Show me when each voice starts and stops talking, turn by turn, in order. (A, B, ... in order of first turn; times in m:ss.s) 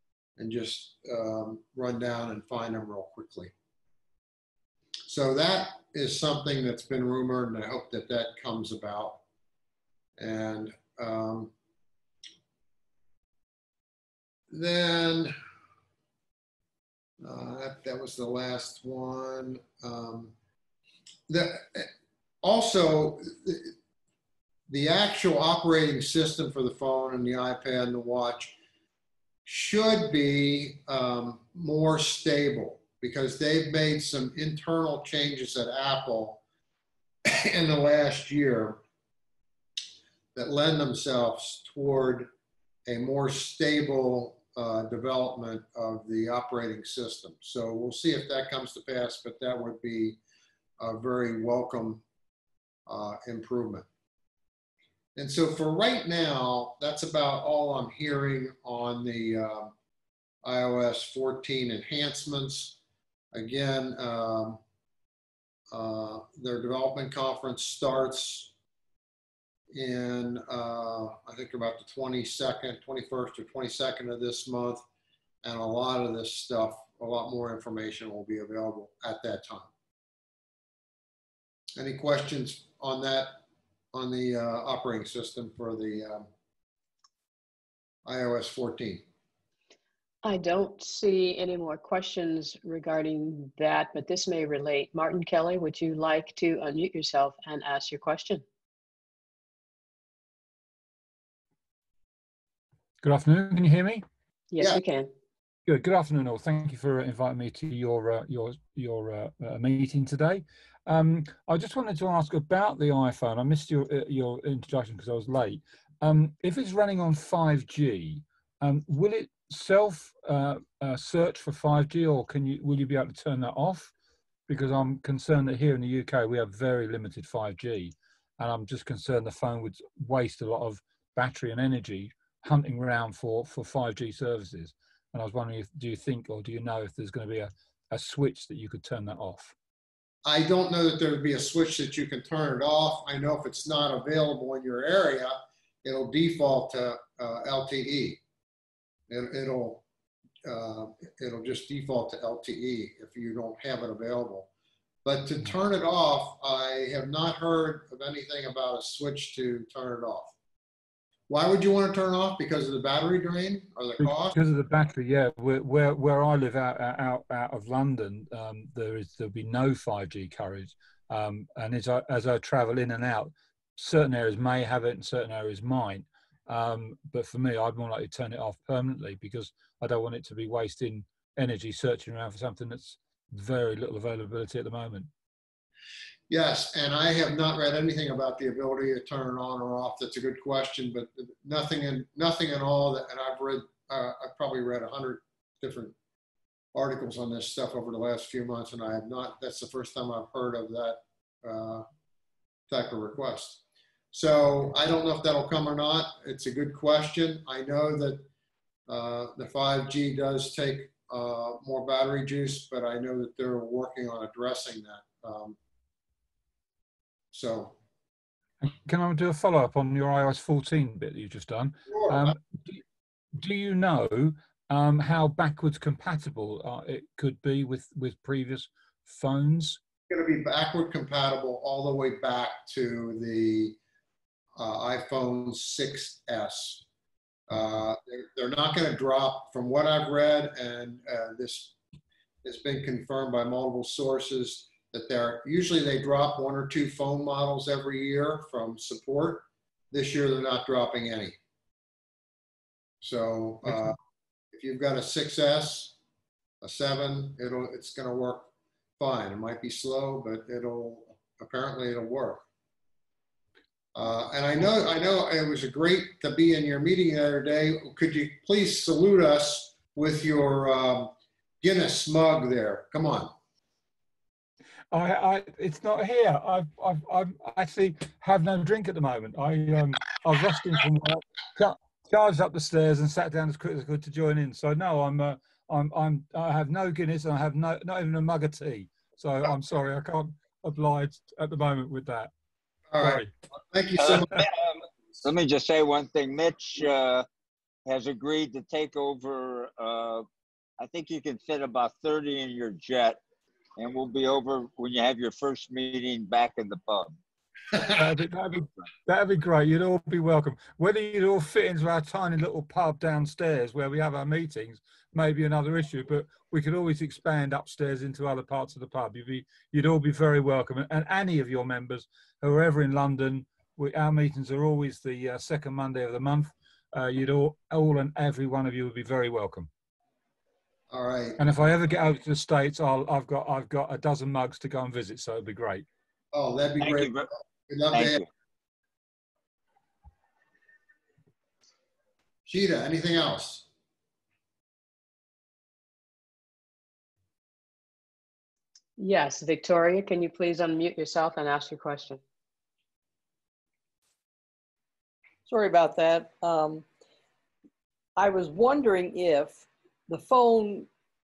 0:00.4-0:03.5 A
0:05.1-0:09.2 A
0:10.2-0:11.5 A
0:14.5-0:15.3 A
0:17.2-0:20.3 A
0:21.3-0:21.8 A
0:22.4-0:23.6 A
0:24.7-0:28.6 A
0:29.4-0:36.4 A
0:37.4-0:38.8 A
0:40.3-0:42.3 A
0:42.9-0:50.2 A
0:50.8-0:52.0 A
0:52.9-0:53.9 A
0:55.2-0:59.7 A
1:00.4-1:02.8 A
1:03.3-1:04.6 A
1:05.7-1:08.5 A
1:09.7-1:14.8 A
1:15.4-1:19.7 A
1:21.8-1:23.4 A
1:23.9-1:26.2 A
1:28.0-1:29.0 A
1:30.2-1:38.4 B
1:43.0-1:44.0 C
1:44.5-1:45.1 B
1:45.7-2:03.9 C
2:04.5-2:19.6 C
2:20.3-2:25.3 A
2:25.8-2:28.2 A
2:29.1-2:29.8 A
2:30.5-2:34.5 A
2:35.0-2:40.3 A
2:41.3-2:44.4 A
2:44.0-3:05.1 C
3:06.3-3:15.9 A
3:16.7-3:21.8 A
3:22.7-3:23.6 A
3:24.1-3:28.2 A
3:28.9-3:35.5 A
3:37.3-3:37.7 A
3:38.6-3:42.8 C
3:43.4-3:49.8 C
3:50.1-3:53.8 A
3:54.6-3:56.8 A
3:57.5-4:01.7 A
4:02.4-4:11.3 A
4:13.0-4:13.9 A
4:14.5-4:15.9 A
4:16.6-4:18.5 A
4:19.0-4:22.4 A
4:24.0-4:31.1 A
4:31.6-4:33.3 A
4:34.9-4:52.3 C
4:53.0-4:53.3 C
4:53.7-4:54.3 A
4:54.0-4:57.3 D
4:57.9-5:00.2 D
5:00.8-5:03.2 D
5:03.8-5:07.2 D
5:07.9-5:29.7 C
5:30.9-5:31.3 A
5:31.4-5:35.9 C
5:36.3-5:37.1 A
5:36.8-5:37.3 D
5:37.7-5:38.2 A
5:37.9-5:38.3 D
5:42.5-5:43.6 A
5:49.0-5:52.2 B
5:55.4-5:56.9 E
5:58.2-6:00.9 E